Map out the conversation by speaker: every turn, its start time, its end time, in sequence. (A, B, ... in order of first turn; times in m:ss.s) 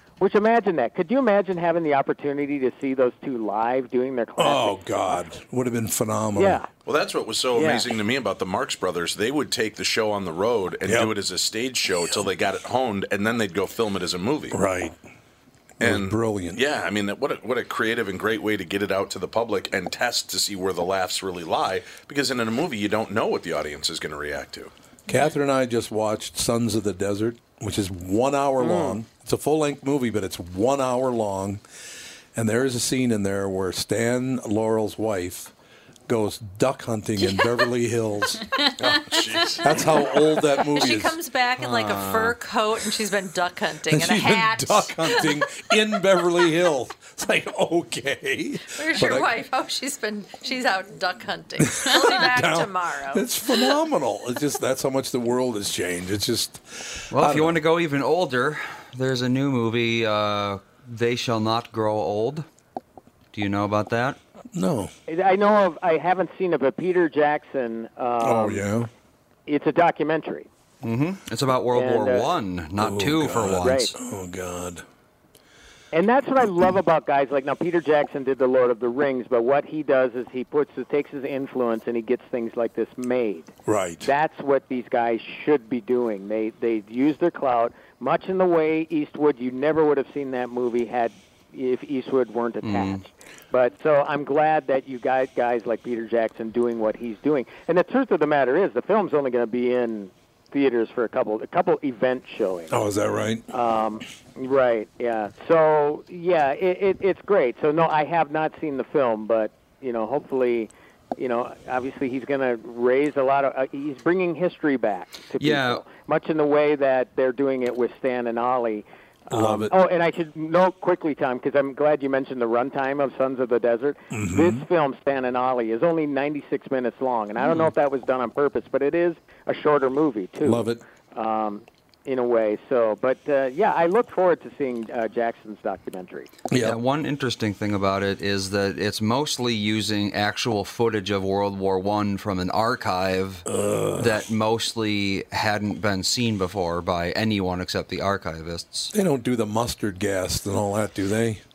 0:00.2-0:04.8 A
0:04.4-0:06.6 B
0:06.4-0:06.7 A
0:06.8-0:14.6 C
0:07.5-0:07.9 A
0:10.8-0:11.1 B
0:11.9-0:12.3 B
0:14.5-0:15.0 B
0:15.8-0:16.6 B
0:15.8-0:24.7 C
0:25.1-0:31.6 B
0:28.6-0:29.0 A
0:32.3-0:35.5 B
0:36.1-0:38.4 B
0:38.8-0:39.9 C
0:39.6-0:41.2 B
0:39.7-0:45.4 D
0:41.6-0:42.4 E
0:43.9-0:49.4 B
0:48.7-0:53.6 D
0:51.6-0:57.6 B
0:57.1-1:02.4 E
1:03.3-1:04.2 E
1:04.5-1:04.9 B
1:05.1-1:08.6 A
1:08.2-1:08.9 B
1:09.5-1:10.5 A
1:10.8-1:13.9 E
1:11.7-1:12.3 A
1:12.8-1:14.8 B
1:13.6-1:13.9 A
1:15.9-1:42.8 A
1:23.6-1:24.1 B
1:32.6-1:33.0 E
1:42.7-1:43.4 B
1:43.5-2:16.3 A
1:55.4-1:55.8 E
1:59.3-1:59.7 B
2:04.1-2:04.6 B
2:10.4-2:10.8 B
2:16.5-2:16.8 B
2:16.6-2:28.9 E
2:23.5-2:24.2 B
2:28.9-2:31.4 B